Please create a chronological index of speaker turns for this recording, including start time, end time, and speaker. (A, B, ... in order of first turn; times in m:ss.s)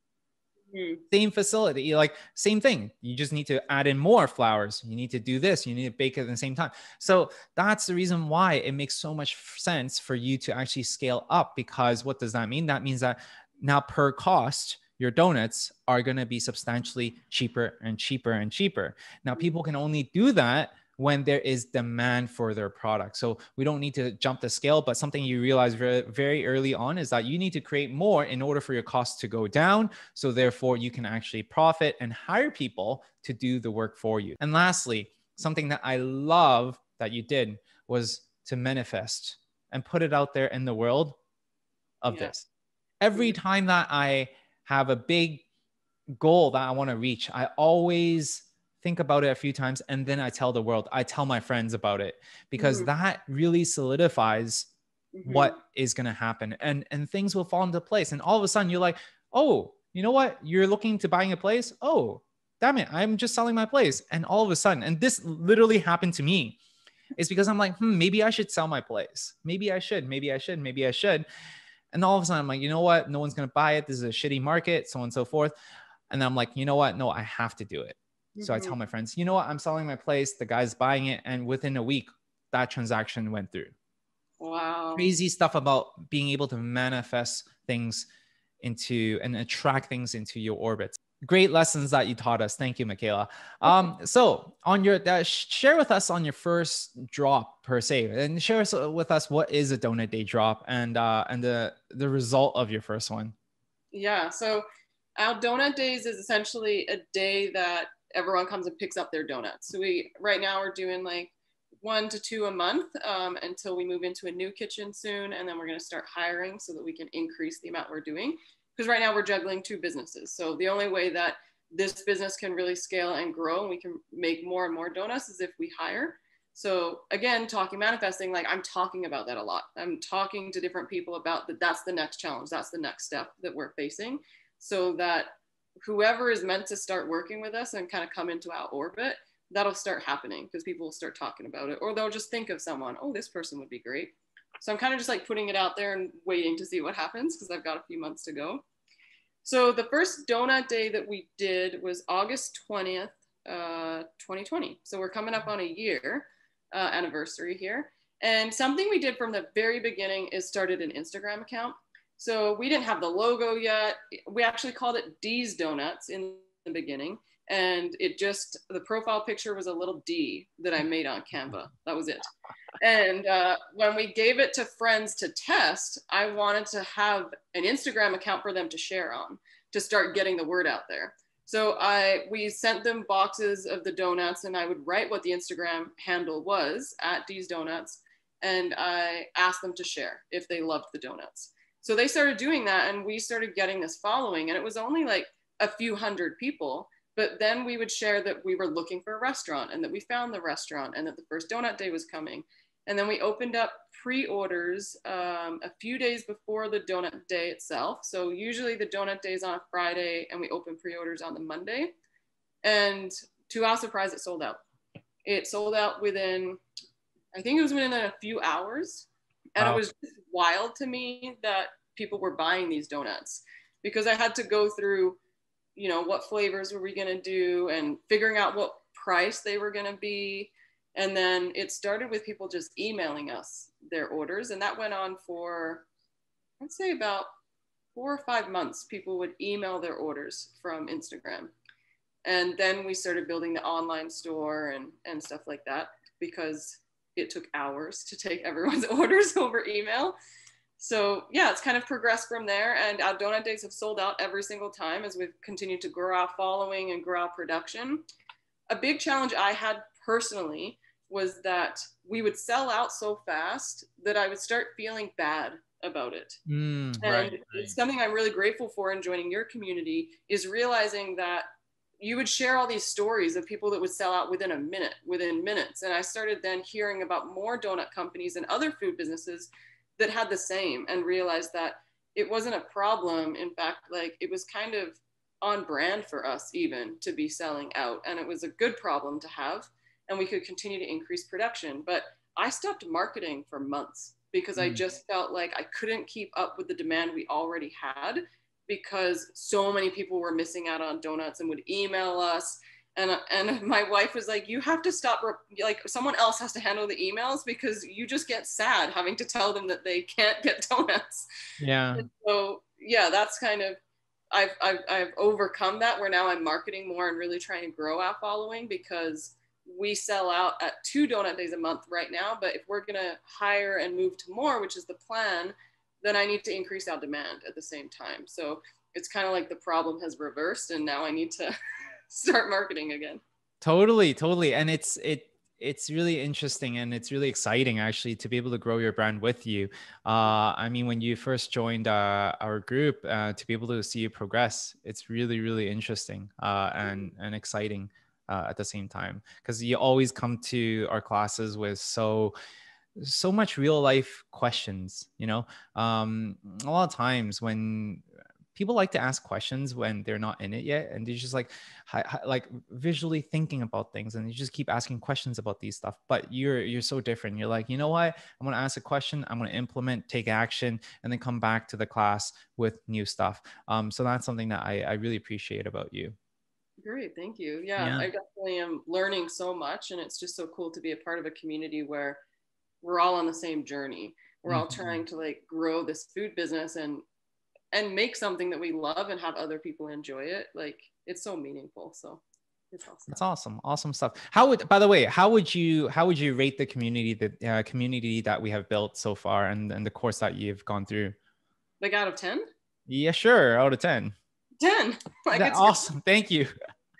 0:00.7-0:01.0 A
0:01.1-0:41.2 B
0:42.0-0:42.4 B
0:42.1-0:42.4 A
0:43.0-0:45.4 B
0:46.2-0:54.7 B
0:52.6-0:52.9 A
0:55.1-0:55.6 A
0:55.2-1:06.6 B
1:07.2-1:11.2 B
1:11.9-1:15.5 B
1:16.1-1:23.7 B
1:18.4-1:18.8 A
1:24.4-1:25.1 A
1:25.0-1:28.1 B
1:28.6-1:43.3 B
1:43.9-1:44.6 A
1:45.2-2:28.6 A
2:29.4-2:52.3 A
2:52.8-3:31.9 A
3:32.6-3:34.6 A
3:35.2-3:36.6 A
3:37.3-3:45.2 A
3:39.6-3:39.8 B
3:45.8-3:55.8 A
3:56.6-3:57.3 A
3:57.9-4:01.5 A
4:02.2-4:10.2 A
4:10.8-4:18.0 A
4:18.7-4:26.4 A
4:26.5-4:27.8 B
4:27.0-4:31.5 A
4:32.0-5:11.2 A
5:11.6-5:12.1 B
5:12.0-5:13.8 A
5:14.3-5:31.5 A
5:32.1-5:33.2 A
5:33.6-5:52.3 B
5:46.8-5:47.1 A
5:53.0-6:16.2 B
6:16.8-6:22.2 A
6:17.8-6:18.1 B
6:22.8-6:27.0 A
6:24.5-6:25.0 B
6:27.7-6:33.2 A
6:33.1-6:41.2 B
6:41.8-6:42.5 A
6:42.9-6:44.1 B
6:44.6-6:45.8 A
6:45.3-6:46.5 B